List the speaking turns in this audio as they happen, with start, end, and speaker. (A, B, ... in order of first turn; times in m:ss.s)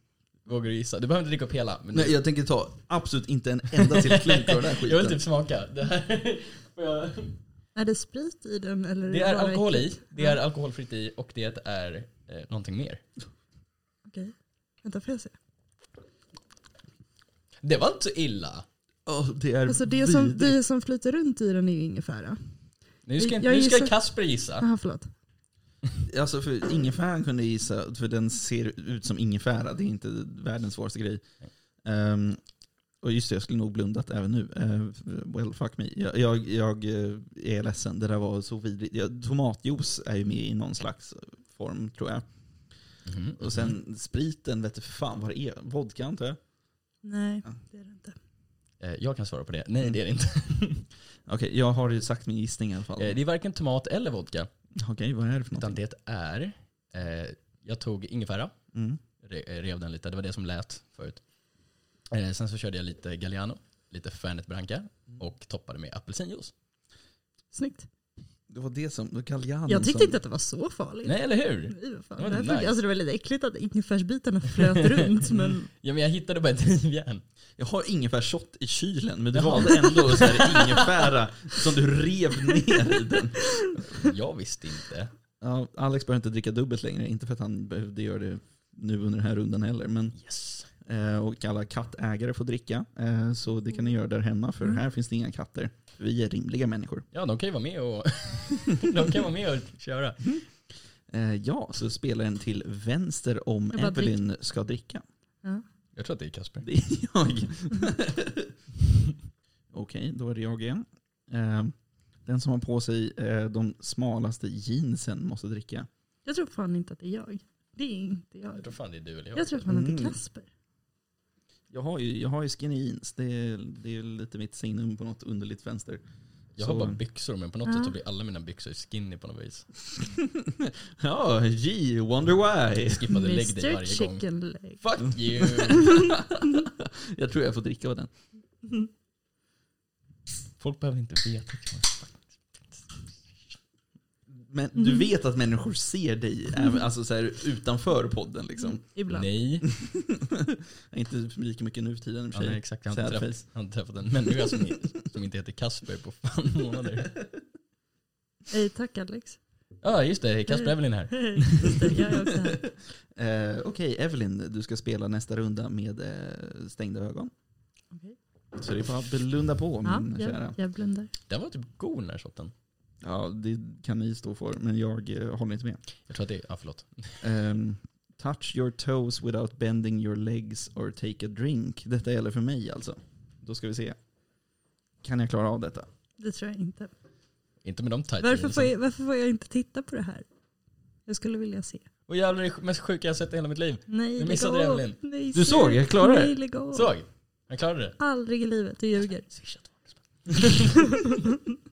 0:00.5-0:02.2 A
0:01.9-0:05.2 B
0:03.8-0:07.4 A
0:07.8-0:10.4 C
0:09.1-0:13.0 A
0:14.1-0:15.3 C
0:17.6-0:18.7 A
0:19.1-0:20.6 B
0:19.7-0:22.4 C
0:23.1-0:24.7 A
0:23.2-0:24.0 C
0:24.6-0:25.1 C
0:26.1-0:31.2 B
0:31.8-0:32.4 B
0:33.0-0:42.2 B
0:43.1-0:43.7 A
0:43.4-0:46.4 B
0:47.0-0:48.2 C
0:48.8-0:50.9 A
0:51.3-0:53.2 B
0:53.0-0:54.5 A
0:54.8-0:55.8 B
0:55.6-0:58.5 A
0:58.7-0:59.0 B
0:59.2-1:01.2 A
1:02.1-1:06.5 A
1:07.5-1:07.9 C
1:08.5-1:10.2 B
1:09.7-1:15.7 C
1:11.0-1:12.8 A
1:14.6-1:17.2 A
1:17.6-1:23.4 B
1:19.3-1:20.8 A
1:20.4-1:20.9 C
1:23.4-1:24.0 C
1:23.9-1:25.1 A
1:25.4-1:30.2 B
1:30.2-1:30.7 A
1:30.8-1:37.1 B
1:37.1-1:40.4 A
1:41.1-1:45.0 B
1:43.7-1:44.2 C
1:46.0-1:46.7 A
1:46.6-1:48.5 B
1:49.7-1:55.9 B
1:56.2-1:58.7 C
1:58.5-1:59.6 A
1:59.4-2:00.5 C
1:59.7-2:00.2 B
2:01.7-2:06.0 B
2:06.6-2:09.7 A
2:06.6-2:07.0 B
2:07.7-2:07.9 C
2:10.0-2:13.1 B
2:12.9-2:14.2 A
2:13.1-2:14.8 C
2:14.8-2:16.1 A
2:15.4-2:18.1 B
2:15.7-2:16.2 C
2:20.6-2:22.8 A
2:24.3-2:28.8 B
2:28.8-2:29.3 C
2:29.1-2:29.6 A
2:29.6-2:33.4 B
2:32.3-2:37.2 A
2:38.5-2:39.4 C
2:39.8-2:42.0 A
2:40.5-2:42.6 C
2:42.3-2:47.3 B
2:47.9-2:48.2 C
2:48.6-2:50.6 B
2:49.8-2:51.1 C
2:51.3-2:52.5 A
2:53.0-2:55.8 B
2:56.1-2:57.2 A
2:57.2-3:04.0 B
3:05.0-3:05.9 B
3:06.2-3:06.9 C
3:07.6-3:08.7 A
3:08.2-3:10.3 C
3:11.1-3:11.8 C
3:12.1-3:15.0 A
3:13.9-3:16.9 C
3:15.3-3:16.4 B
3:16.7-3:18.0 A
3:18.0-3:19.3 C
3:19.3-3:20.8 A